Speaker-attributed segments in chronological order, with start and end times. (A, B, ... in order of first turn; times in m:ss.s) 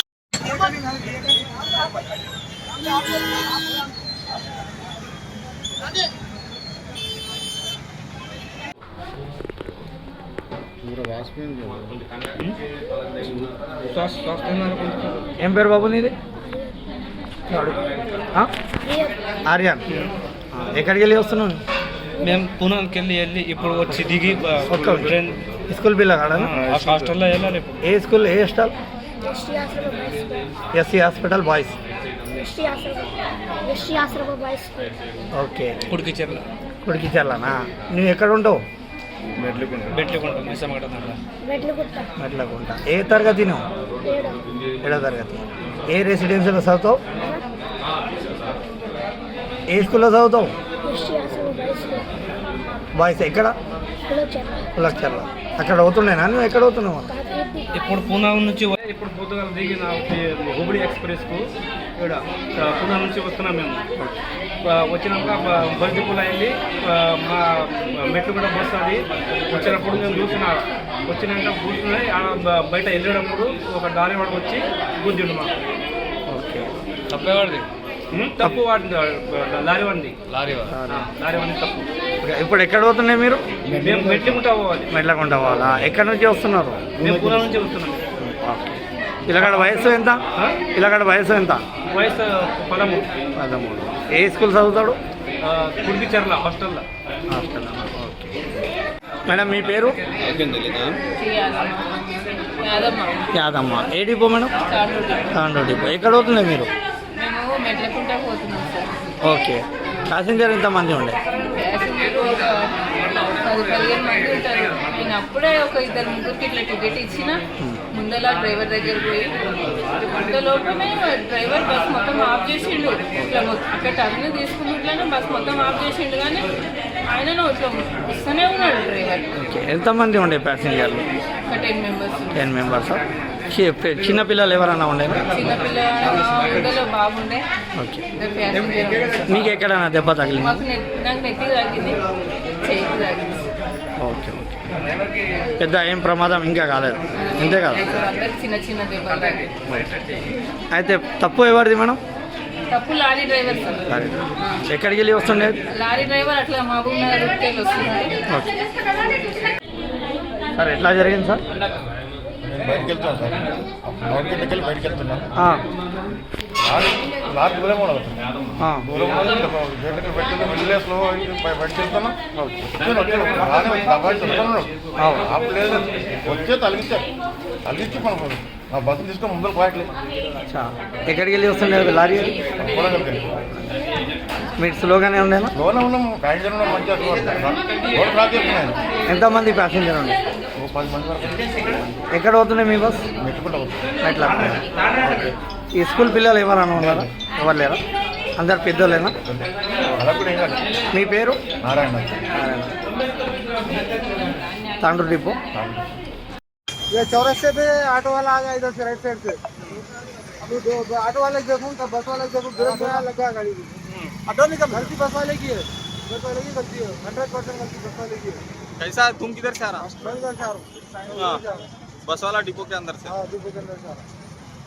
0:13.9-0:15.2 A
0:15.4-0:16.1 B
0:17.5-0:17.8 B
0:19.5-0:19.8 B
0:20.5-0:21.6 B
0:22.2-0:25.4 A
0:24.7-0:25.2 B
0:25.7-0:26.6 B
0:26.4-0:27.8 A
0:27.8-0:28.7 B
0:29.3-0:30.4 C
0:30.7-0:31.8 B
0:32.4-0:33.1 C
0:33.6-0:34.8 C
0:35.3-0:35.8 B
0:35.9-0:36.4 A
0:36.8-0:38.6 B
0:39.7-0:41.2 A
0:41.5-0:42.0 C
0:42.2-0:43.6 B
0:44.0-0:44.4 C
0:44.8-0:47.0 B
0:49.7-0:50.6 B
0:50.8-0:52.1 C
0:53.0-0:53.5 B
0:54.1-0:54.6 C
0:54.7-0:57.2 B
0:57.7-1:03.8 A
1:04.6-1:15.5 A
1:16.3-1:16.7 B
1:17.2-1:21.8 A
1:20.7-1:21.0 B
1:22.2-1:23.4 B
1:23.7-1:24.9 A
1:23.8-1:24.3 D
1:24.9-1:26.9 B
1:27.0-1:28.1 A
1:27.0-1:27.4 D
1:28.2-1:30.2 B
1:29.4-1:30.6 A
1:30.7-1:31.6 B
1:31.9-1:33.0 A
1:33.4-1:35.0 B
1:35.4-1:36.8 A
1:37.3-1:38.3 B
1:39.3-1:40.0 B
1:41.1-1:43.2 E
1:43.3-1:44.5 B
1:44.6-1:45.3 E
1:45.3-1:46.7 B
1:47.2-1:49.0 E
1:49.2-1:51.2 B
1:51.5-2:09.4 E
2:09.4-2:11.0 B
2:11.4-2:12.4 E
2:12.3-2:15.3 B
2:15.3-2:17.4 E
2:17.8-2:18.0 B
2:18.1-2:19.3 E
2:19.2-2:20.6 B
2:20.4-2:22.0 E
2:22.5-2:23.5 E
2:24.0-2:24.7 B
2:25.6-2:27.8 B
2:27.2-2:29.5 E
2:29.7-2:29.9 B
2:30.7-2:32.0 B
2:32.7-2:33.9 E
2:33.9-2:35.6 B
2:35.7-2:38.2 E
2:40.6-2:41.4 B
2:42.4-2:45.2 D
2:46.6-2:48.2 D
2:48.6-2:48.9 B
2:48.8-2:52.2 D
2:52.4-2:52.6 B
2:52.7-2:57.1 D
2:55.0-2:55.3 B
2:57.6-2:59.9 D
3:00.4-3:02.4 B
3:02.6-3:03.4 D
3:04.6-3:05.5 B
3:05.5-3:08.8 D
3:09.1-3:10.2 B
3:10.6-3:11.4 D
3:11.8-3:13.1 B
3:13.2-3:13.8 D
3:14.0-3:17.8 B
3:16.8-3:17.1 D
3:18.4-3:19.2 B
3:19.3-3:20.6 D
3:20.9-3:21.4 B
3:21.6-3:22.2 D
3:22.3-3:22.7 B
3:24.8-3:25.4 B
3:25.5-3:25.9 D
3:26.9-3:29.4 F
3:30.4-3:33.7 F
3:34.3-3:34.6 G
3:34.7-3:38.4 F
3:38.8-3:39.9 G
3:40.0-3:40.6 F
3:42.1-3:43.1 G
3:43.1-3:44.0 F